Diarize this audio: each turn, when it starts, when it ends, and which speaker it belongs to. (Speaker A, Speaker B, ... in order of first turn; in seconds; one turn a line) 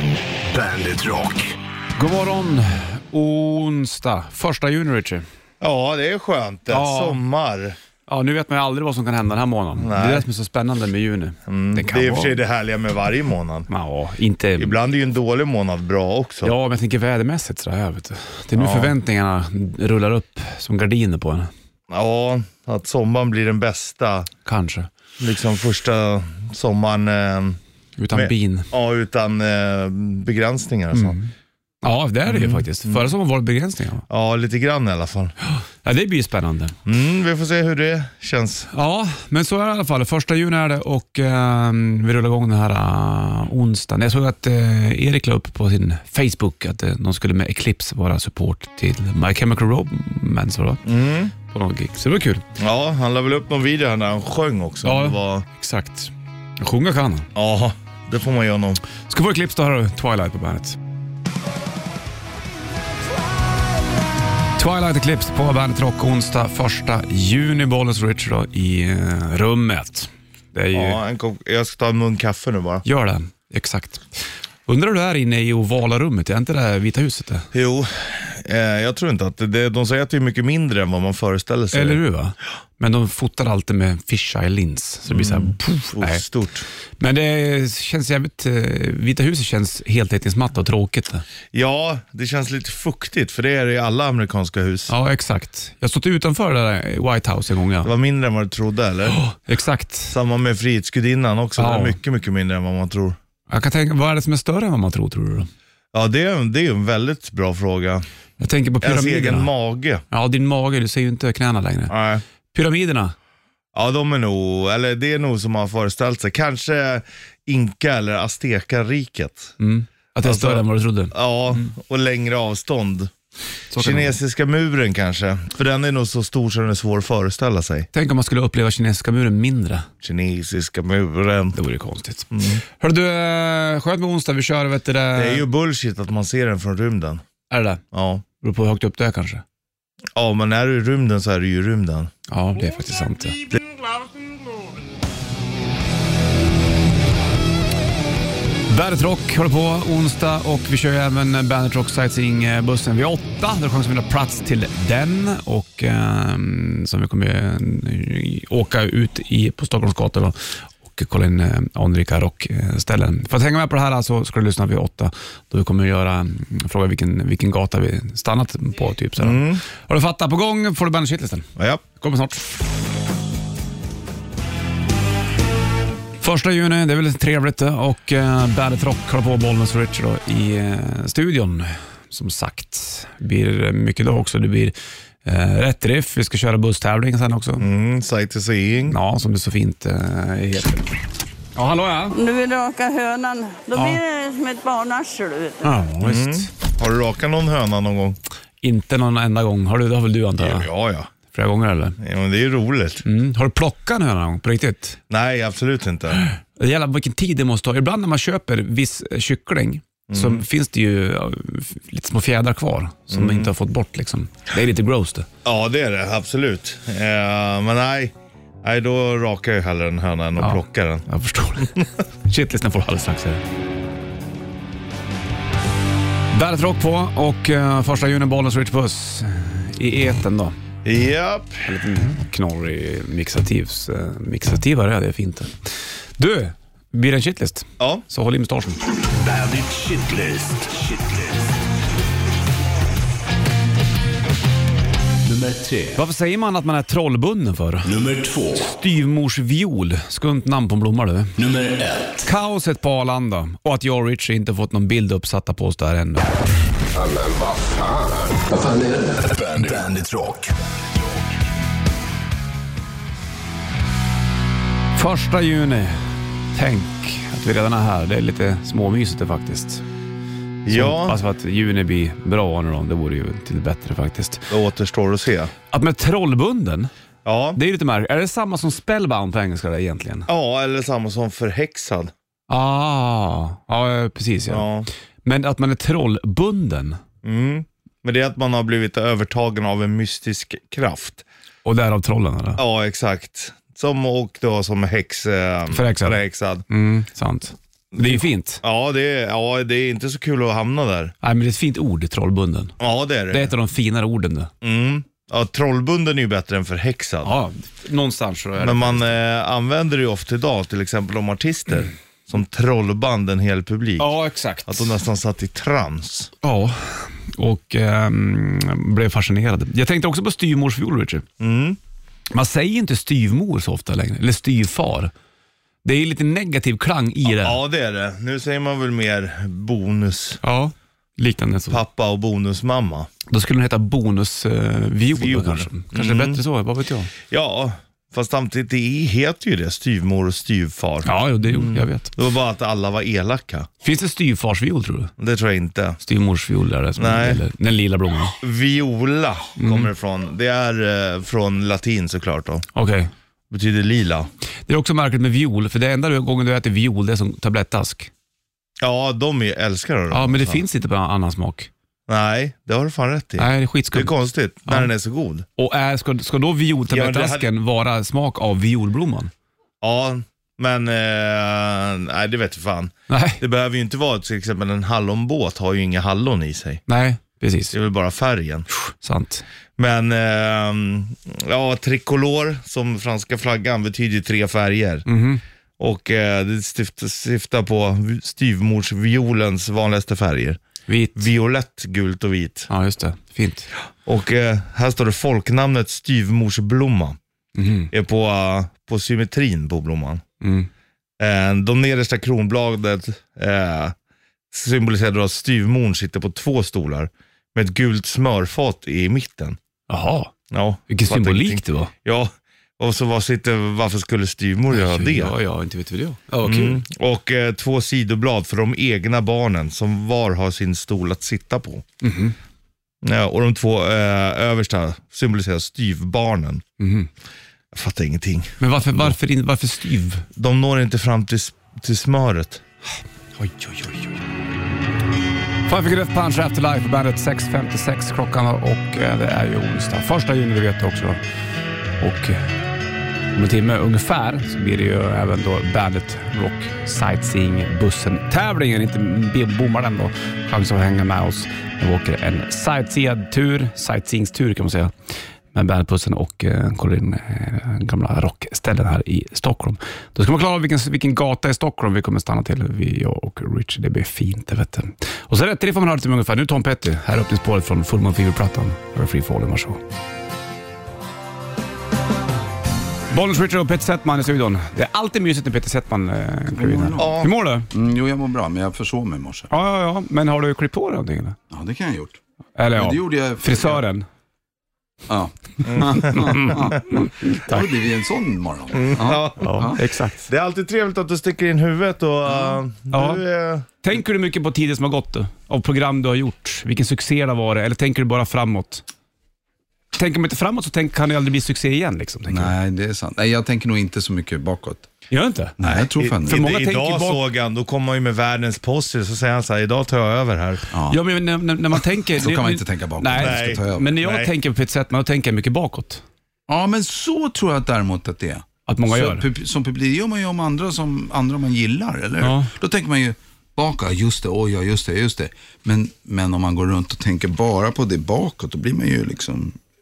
Speaker A: 0.5-1.4
Speaker B: 1.9-5.2
Speaker C: 5.6-7.8
Speaker B: 6.7-7.2
Speaker B: 8.1-12.4
Speaker C: 9.8-10.3
Speaker C: 11.5-13.7
Speaker B: 13.7-14.8
Speaker C: 14.6-16.5
Speaker B: 16.4-21.5
Speaker C: 18.6-18.9
Speaker C: 21.9-24.3
Speaker B: 24.4-24.9
Speaker C: 25.2-27.6
Speaker B: 28.0-28.7
Speaker C: 28.1-31.2
Speaker B: 30.9-31.3
Speaker B: 31.8-34.0
Speaker C: 32.3-33.1
Speaker C: 34.1-35.3
Speaker B: 35.4-36.8
Speaker C: 36.9-38.7
Speaker B: 38.7-50.8
Speaker C: 50.9-51.3
Speaker B: 51.4-52.4
Speaker C: 52.6-55.4
Speaker B: 54.8-57.3
Speaker C: 57.3-58.8
Speaker B: 59.1-60.8
Speaker B: 64.6-71.0
Speaker C: 70.7-72.8
Speaker B: 72.8-77.5
Speaker C: 77.5-82.0
Speaker B: 81.7-86.2
Speaker C: 85.1-86.7
Speaker B: 87.0-91.2
Speaker C: 91.5-94.9
Speaker B: 94.9-97.9
Speaker C: 97.8-99.2
Speaker B: 99.1-100.1
Speaker C: 100.1-103.2
Speaker B: 101.6-102.0
Speaker B: 103.5-105.5
Speaker C: 105.9-108.0
Speaker B: 108.4-109.5
Speaker C: 108.8-110.0
Speaker B: 110.1-111.9
Speaker C: 111.9-112.2
Speaker B: 112.5-113.1
Speaker C: 113.7-119.5
Speaker B: 119.6-121.7
Speaker C: 120.2-123.1
Speaker B: 123.7-124.2
Speaker C: 123.7-127.9
Speaker B: 127.9-129.9
Speaker C: 130.0-131.6
Speaker B: 131.5-135.4
Speaker C: 132.3-132.6
Speaker C: 135.2-137.2
Speaker B: 137.5-137.8
Speaker C: 137.9-138.2
Speaker B: 138.4-139.4
Speaker C: 140.2-142.1
Speaker B: 142.3-143.4
Speaker B: 148.7-172.5
Speaker C: 169.2-169.6
Speaker C: 171.6-171.8
Speaker B: 176.2-187.7
Speaker C: 187.6-189.0
Speaker B: 188.9-190.9
Speaker B: 191.6-192.2
Speaker D: 192.1-195.7
Speaker B: 193.7-194.0
Speaker B: 195.6-196.5
Speaker C: 196.0-198.2
Speaker B: 198.6-200.7
Speaker C: 200.4-201.1
Speaker B: 201.3-202.0
Speaker C: 202.0-203.0
Speaker B: 203.0-205.0
Speaker C: 205.1-206.2
Speaker B: 206.2-215.3
Speaker C: 210.1-210.4
Speaker C: 213.1-213.5
Speaker C: 215.4-221.1
Speaker B: 220.4-223.4
Speaker B: 226.3-230.6
Speaker C: 230.8-231.6
Speaker B: 231.6-238.8
Speaker C: 237.8-238.0
Speaker E: 239.3-240.4
Speaker E: 245.3-245.6
Speaker B: 245.8-251.4
Speaker E: 251.5-251.8
Speaker B: 252.1-256.3
Speaker E: 258.5-260.3
Speaker B: 264.9-269.8
Speaker C: 270.6-271.2
Speaker B: 270.7-274.5
Speaker C: 274.5-275.5
Speaker B: 275.7-276.9
Speaker C: 277.2-277.6
Speaker B: 277.6-280.3
Speaker C: 280.3-282.1
Speaker B: 282.5-284.6
Speaker C: 284.5-284.9
Speaker B: 285.2-287.0
Speaker C: 287.2-291.2
Speaker B: 291.6-292.6
Speaker C: 292.6-296.6
Speaker B: 295.7-298.6
Speaker C: 297.9-301.1
Speaker B: 301.2-302.7
Speaker C: 302.8-303.5
Speaker B: 303.3-304.5
Speaker C: 304.6-307.3
Speaker B: 307.2-309.1
Speaker C: 308.6-314.1
Speaker B: 314.0-314.9
Speaker C: 314.7-316.3
Speaker B: 316.4-321.2
Speaker C: 321.4-321.8
Speaker B: 322.3-325.1
Speaker B: 325.8-327.6
Speaker C: 327.3-330.4
Speaker B: 330.4-331.8
Speaker C: 331.7-333.1
Speaker B: 333.3-337.1
Speaker C: 335.1-336.4
Speaker C: 337.3-343.7
Speaker B: 341.0-342.1
Speaker B: 343.8-345.1
Speaker C: 345.2-346.0
Speaker B: 346.0-348.4
Speaker C: 347.0-347.4
Speaker C: 348.4-352.6
Speaker B: 349.6-349.9
Speaker B: 352.7-353.1
Speaker C: 353.5-354.3
Speaker B: 354.7-358.1
Speaker C: 358.8-360.6
Speaker B: 360.1-361.7
Speaker C: 362.1-365.4
Speaker B: 363.4-364.1
Speaker B: 365.6-369.3
Speaker C: 366.9-367.5
Speaker C: 369.8-376.8
Speaker B: 373.1-373.4
Speaker B: 376.9-377.7
Speaker C: 377.7-378.7
Speaker B: 378.8-379.4
Speaker C: 379.8-385.1
Speaker B: 385.1-385.4
Speaker C: 385.8-390.6
Speaker B: 390.9-391.2
Speaker C: 391.1-392.7
Speaker B: 392.7-393.7
Speaker C: 394.1-397.2
Speaker B: 397.5-397.9
Speaker C: 397.9-400.2
Speaker B: 400.4-400.7
Speaker C: 401.2-403.9
Speaker C: 404.5-409.6
Speaker B: 409.9-410.3
Speaker C: 410.5-415.3
Speaker B: 410.9-411.9
Speaker B: 414.7-416.8
Speaker C: 416.4-421.8
Speaker B: 422.0-422.3
Speaker C: 423.0-426.6
Speaker B: 426.8-427.1
Speaker C: 427.7-429.1
Speaker B: 428.6-430.2
Speaker C: 430.4-432.6
Speaker B: 433.4-434.1
Speaker B: 435.7-441.2
Speaker B: 442.0-442.5
Speaker B: 443.3-454.9
Speaker B: 455.5-469.8
Speaker B: 473.1-477.7
Speaker A: 476.6-479.5
Speaker C: 477.0-477.3
Speaker B: 479.5-481.4
Speaker A: 481.5-482.2
Speaker B: 482.6-484.1
Speaker A: 482.7-483.8
Speaker A: 485.1-489.8
Speaker C: 485.6-486.6
Speaker B: 486.0-487.6
Speaker C: 488.7-493.7
Speaker B: 489.4-490.2
Speaker B: 492.9-493.2
Speaker B: 493.8-498.8
Speaker B: 499.9-502.5
Speaker A: 502.3-504.9
Speaker B: 505.1-505.6
Speaker A: 505.6-506.6
Speaker C: 505.6-510.6
Speaker B: 506.2-507.2
Speaker A: 510.7-511.0
Speaker B: 510.9-516.0
Speaker A: 512.1-514.0
Speaker C: 513.2-514.3
Speaker A: 516.5-529.6
Speaker B: 518.6-519.2
Speaker B: 522.2-522.5